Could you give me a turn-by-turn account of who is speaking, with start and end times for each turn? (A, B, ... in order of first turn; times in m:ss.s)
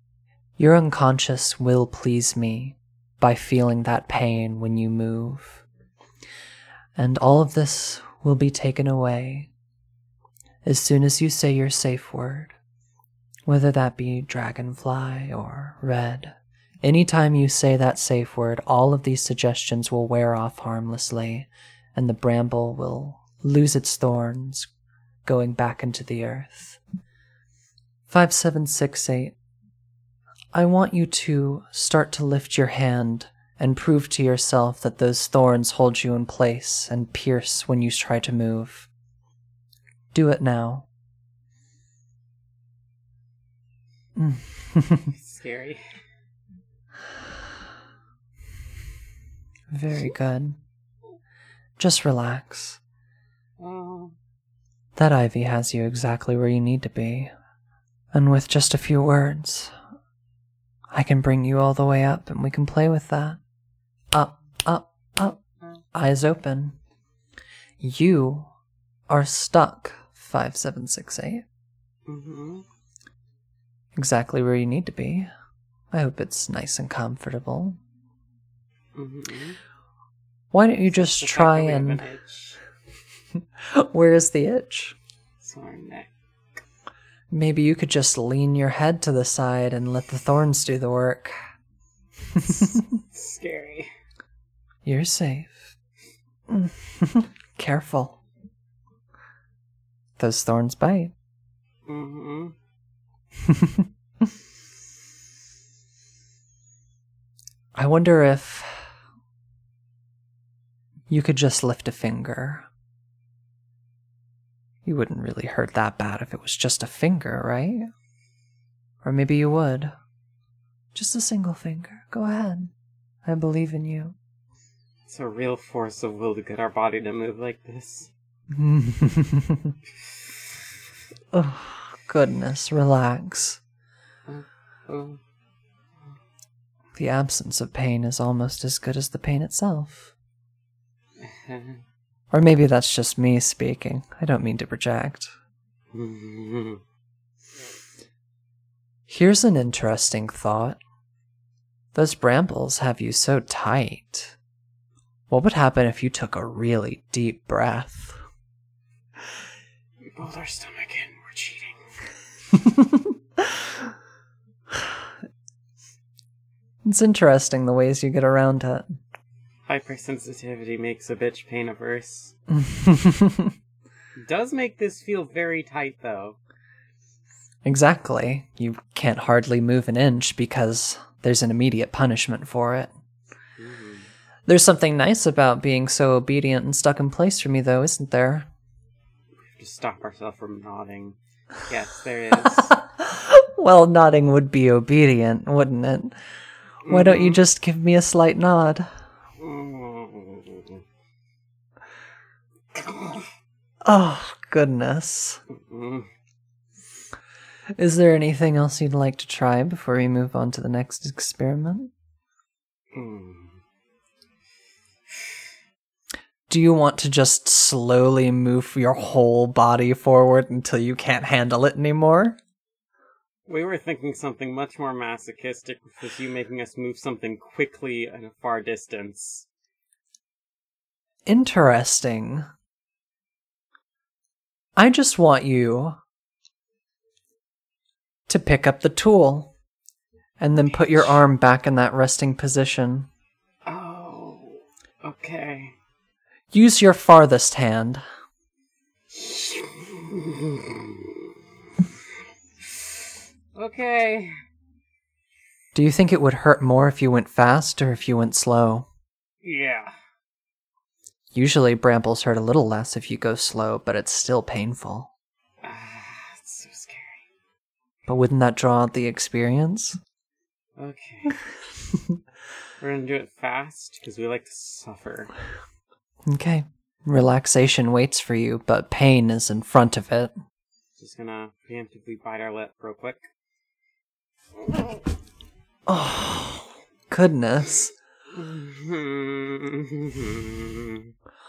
0:00.6-0:05.6 A
0:07.0-0:09.5 A
0:10.6-0:12.6 A
0:13.5-0:24.7 A
0:25.3-0:26.8 A
0:28.1-0:29.4 A
0:30.5-0:38.9 A
0:40.1-0:40.9 A
0:44.2-0:45.1 A
0:45.1-0:46.0 B
0:49.7-0:50.6 A
0:51.8-0:52.8 A
0:53.6-0:54.2 B
0:55.0-0:57.3 A
0:58.1-0:59.8 A
1:00.9-1:03.4 A
1:04.1-1:05.4 A
1:05.9-1:06.8 A
1:07.8-1:08.5 A
1:09.1-1:11.4 A
1:12.1-1:12.6 B
1:14.0-1:15.3 A
1:15.9-1:17.8 A
1:19.0-1:19.6 B
1:20.5-1:22.0 A
1:20.9-1:22.6 B
1:23.6-1:25.0 A
1:25.4-1:26.1 B
1:27.3-1:31.4 A
1:32.3-1:33.0 A
1:32.5-1:33.9 B
1:34.8-1:35.7 A
1:36.5-1:38.2 A
1:40.2-1:41.1 A
1:41.9-1:42.6 B
1:43.4-1:43.9 A
1:47.8-1:48.9 A
1:51.1-1:52.7 A
1:54.8-1:57.9 A
1:59.0-2:00.0 A
2:01.0-2:02.7 A
2:03.2-2:04.2 A
2:05.1-2:08.1 B
2:08.5-2:09.8 A
2:11.3-2:13.6 A
2:14.3-2:15.2 B
2:17.0-2:20.1 A
2:21.2-2:21.8 B
2:22.3-2:25.3 A
2:25.9-2:26.8 B
2:29.1-2:30.8 A
2:32.0-2:34.4 A
2:35.3-2:38.2 A
2:40.0-2:41.9 B
2:42.5-2:43.5 A
2:46.8-2:48.9 A
2:49.7-2:52.3 B
2:52.5-2:53.5 A
2:54.2-2:56.4 B
2:57.6-3:02.9 A
3:03.6-3:04.1 B
3:04.5-3:08.5 A
3:09.5-3:12.7 B
3:12.6-3:16.2 A
3:16.9-3:17.4 B
3:16.9-3:18.9 A
3:19.4-3:20.8 B
3:22.7-3:23.3 B
3:23.8-3:25.4 A
3:25.5-3:26.1 B
3:27.8-3:31.9 A
3:32.9-3:33.6 B
3:36.5-3:42.4 A
3:43.5-3:49.5 B
3:51.3-3:52.5 A
3:54.8-3:56.0 A
3:58.3-3:59.5 A
4:00.4-4:03.1 A
4:00.6-4:01.2 B
4:03.7-4:05.8 B
4:06.5-4:08.0 A
4:09.1-4:11.4 B
4:12.6-4:14.3 B
4:15.7-4:18.9 A
4:19.4-4:19.9 B
4:21.3-4:25.1 A
4:25.6-4:27.3 B
4:28.1-4:30.0 A
4:30.8-4:31.4 B
4:32.8-4:35.3 B
4:36.3-4:40.4 A
4:41.0-4:43.3 B
4:44.7-4:44.9 B
4:45.9-4:47.9 A
4:48.3-4:51.1 B